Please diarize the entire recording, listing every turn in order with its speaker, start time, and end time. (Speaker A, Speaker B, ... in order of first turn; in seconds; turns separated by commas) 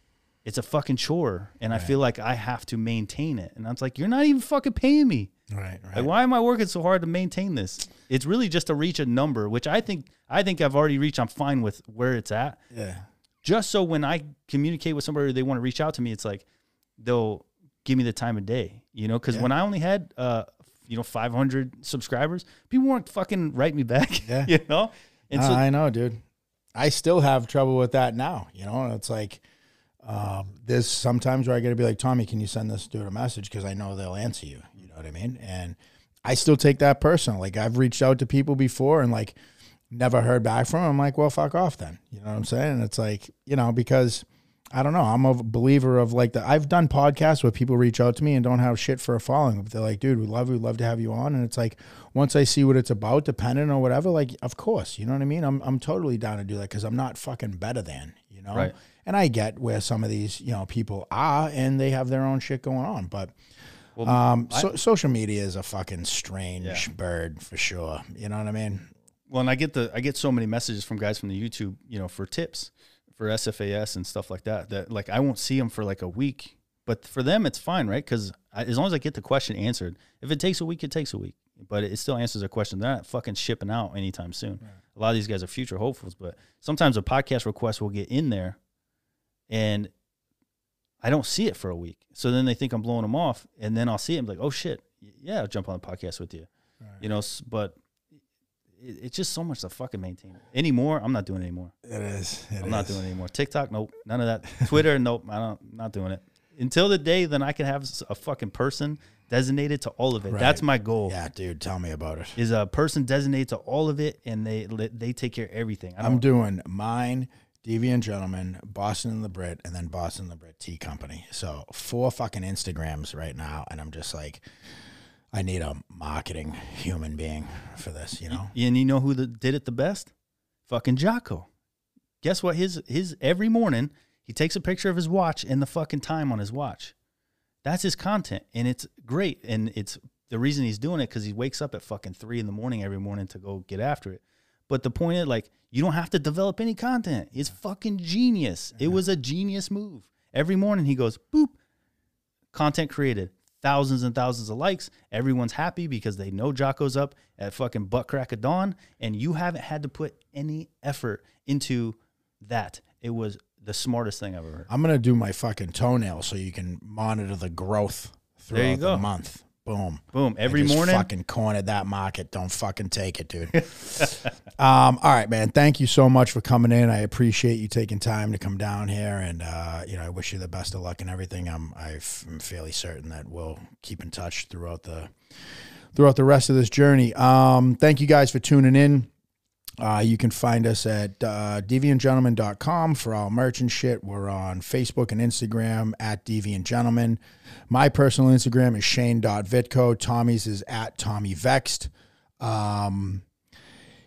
Speaker A: 0.4-5.3, Speaker B: 5.5-6.1, Speaker A: 5.9-12.6, Speaker B: 12.7-13.1, Speaker A: 13.4-16.4, Speaker A: 17.0-25.6, Speaker B: 24.2-24.5, Speaker B: 25.3-26.2, Speaker B: 26.8-29.4, Speaker B: 30.0-39.4, Speaker B: 39.9-63.3, Speaker A: 64.0-64.7, Speaker B: 64.0-68.9, Speaker A: 66.6-66.9, Speaker A: 69.3-88.6, Speaker A: 89.5-89.9, Speaker A: 91.0-96.5, Speaker A: 97.0-97.8, Speaker A: 98.8-101.7, Speaker B: 101.8-103.0, Speaker A: 102.6-111.1, Speaker B: 110.2-112.3, Speaker A: 112.3-116.2, Speaker B: 116.0-124.4, Speaker B: 125.3-128.5, Speaker A: 128.3-130.1, Speaker A: 130.7-131.5, Speaker A: 132.2-136.9, Speaker A: 137.6-151.6, Speaker A: 152.5-164.7, Speaker B: 164.7-185.1, Speaker A: 168.5-169.1, Speaker A: 170.1-171.1, Speaker A: 173.6-174.3, Speaker B: 185.9-189.1, Speaker B: 189.8-203.2